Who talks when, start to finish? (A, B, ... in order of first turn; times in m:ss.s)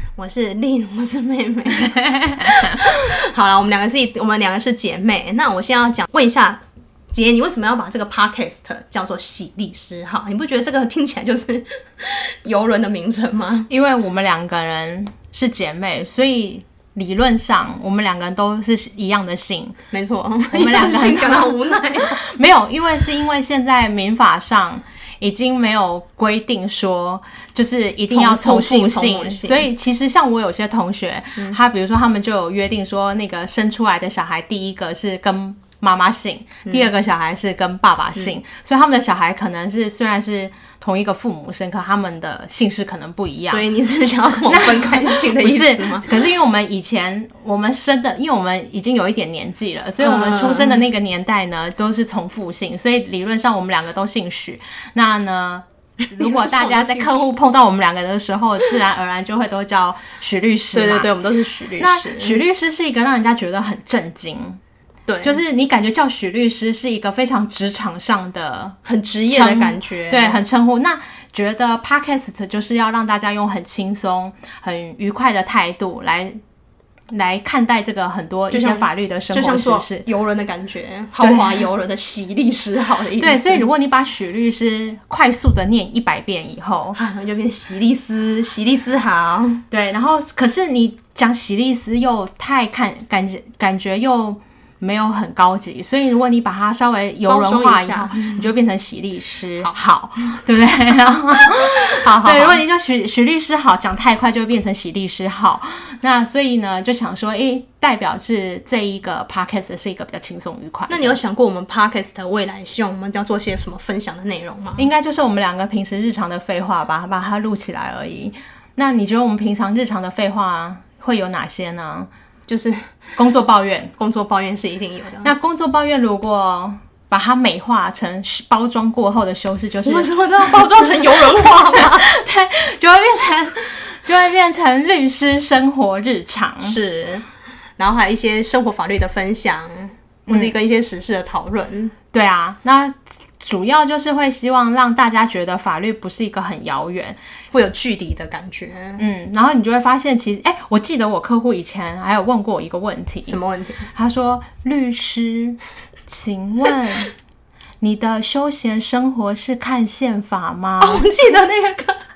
0:00.2-0:13.7 A
0:01.9-0:02.7 B
0:13.7-0:19.8 B
0:19.9-0:22.2 A
0:20.5-0:43.7 B
0:28.1-0:29.7 A
0:43.5-0:46.2 A
0:44.5-1:01.1 B
0:50.0-0:50.8 A
0:56.0-0:57.2 A
1:00.7-1:02.4 A
1:01.8-1:04.6 B
1:05.1-1:05.4 A
1:05.2-1:08.8 B
1:08.8-1:10.4 A
1:09.3-1:16.4 B
1:17.1-1:20.0 B
1:18.5-1:23.7 A
1:21.2-1:21.7 B
1:23.2-1:27.0 B
1:27.0-1:29.6 A
1:29.7-1:51.2 B
1:37.3-1:38.5 A
1:41.6-1:42.6 A
1:50.9-1:54.9 A
1:54.8-2:02.1 B
2:02.5-2:03.0 A
2:03.2-2:03.9 B
2:04.0-2:05.3 A
2:05.2-2:16.8 B
2:09.8-2:12.1 A
2:16.6-2:17.2 A
2:17.8-2:21.9 A
2:22.1-2:27.2 B
2:27.5-2:29.0 A
2:29.0-2:33.4 B
2:33.3-2:33.9 A
2:33.9-2:37.1 B
2:37.8-2:41.0 B
2:40.8-2:42.0 A